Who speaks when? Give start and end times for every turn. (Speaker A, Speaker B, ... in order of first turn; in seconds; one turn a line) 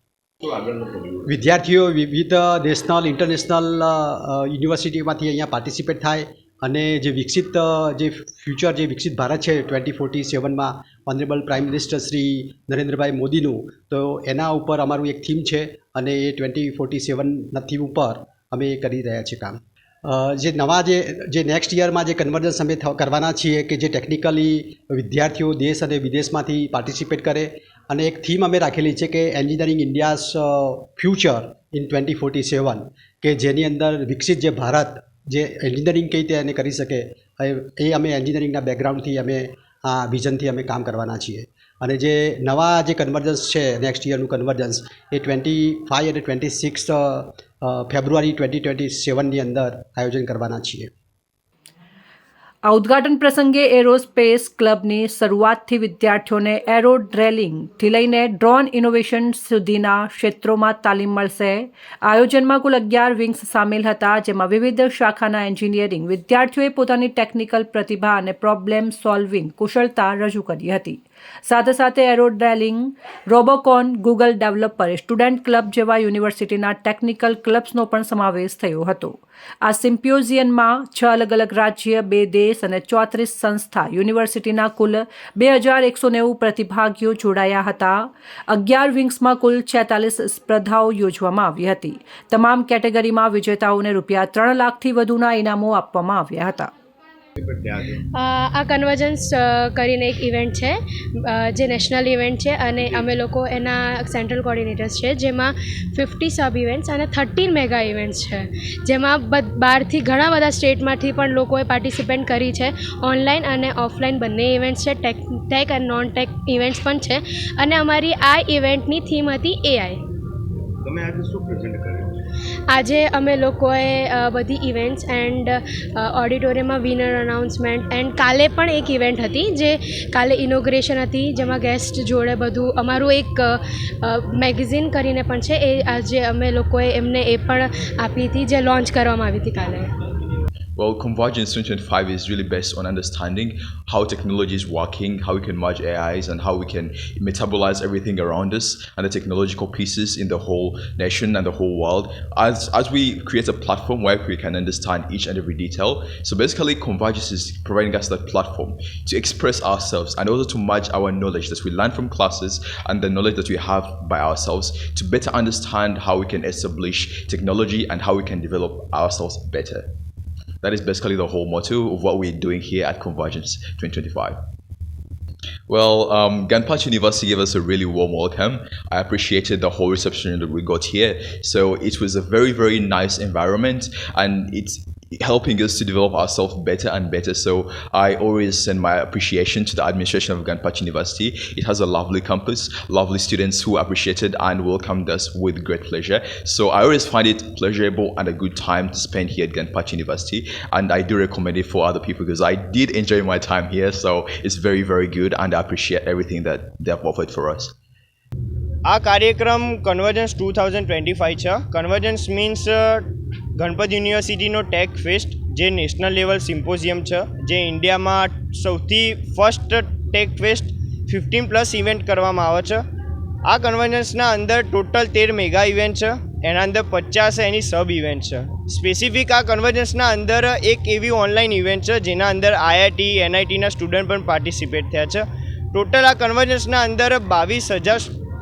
Speaker A: 0.4-1.3
Speaker B: 1.3-50.9
Speaker C: 52.7-96.7
Speaker A: 97.4-98.0
Speaker D: 98.1-120.0
Speaker A: 120.8-122.1
Speaker D: 122.7-139.9
Speaker E: 140.8-169.8
Speaker E: 170.6-174.4
Speaker E: 175.7-207.7
Speaker F: 208.8-213.1
Speaker F: 213.6-222.8
Speaker F: 223.4-238.1